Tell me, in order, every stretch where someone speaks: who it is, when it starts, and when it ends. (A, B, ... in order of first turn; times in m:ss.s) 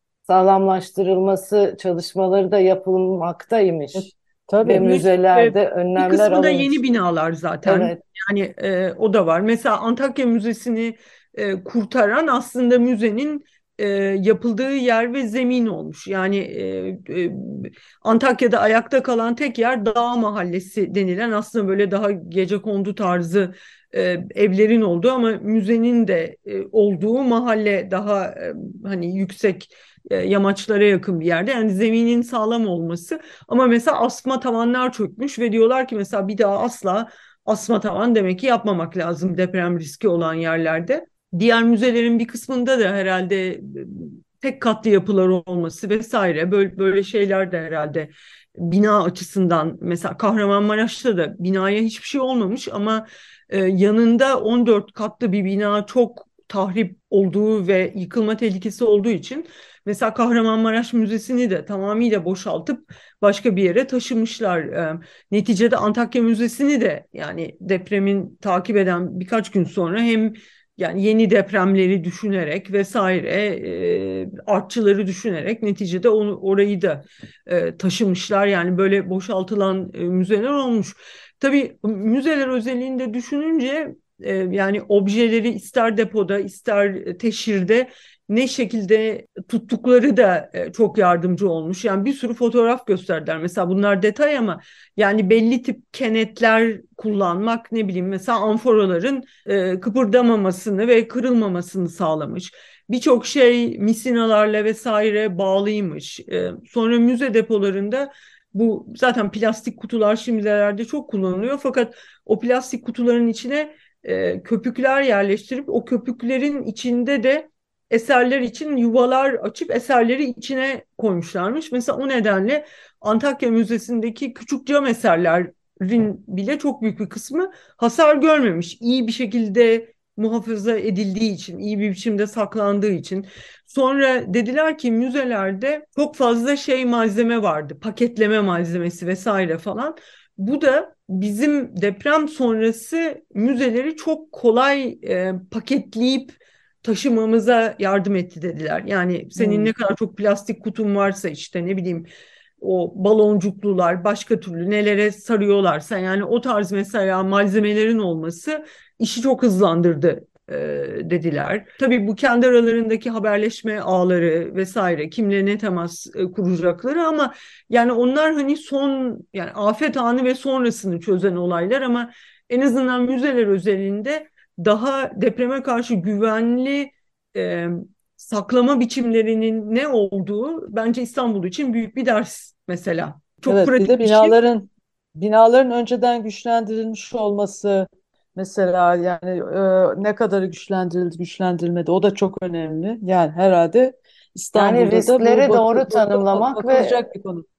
0:00.3-0:04.1 A
0:04.0-0:04.9 B
0:04.6-0:06.8 A
0:04.8-2:32.1 C
0:07.6-0:08.0 A
2:29.4-2:29.7 B
2:32.6-3:04.4 C
3:03.5-3:17.4 B
3:14.6-3:17.1 A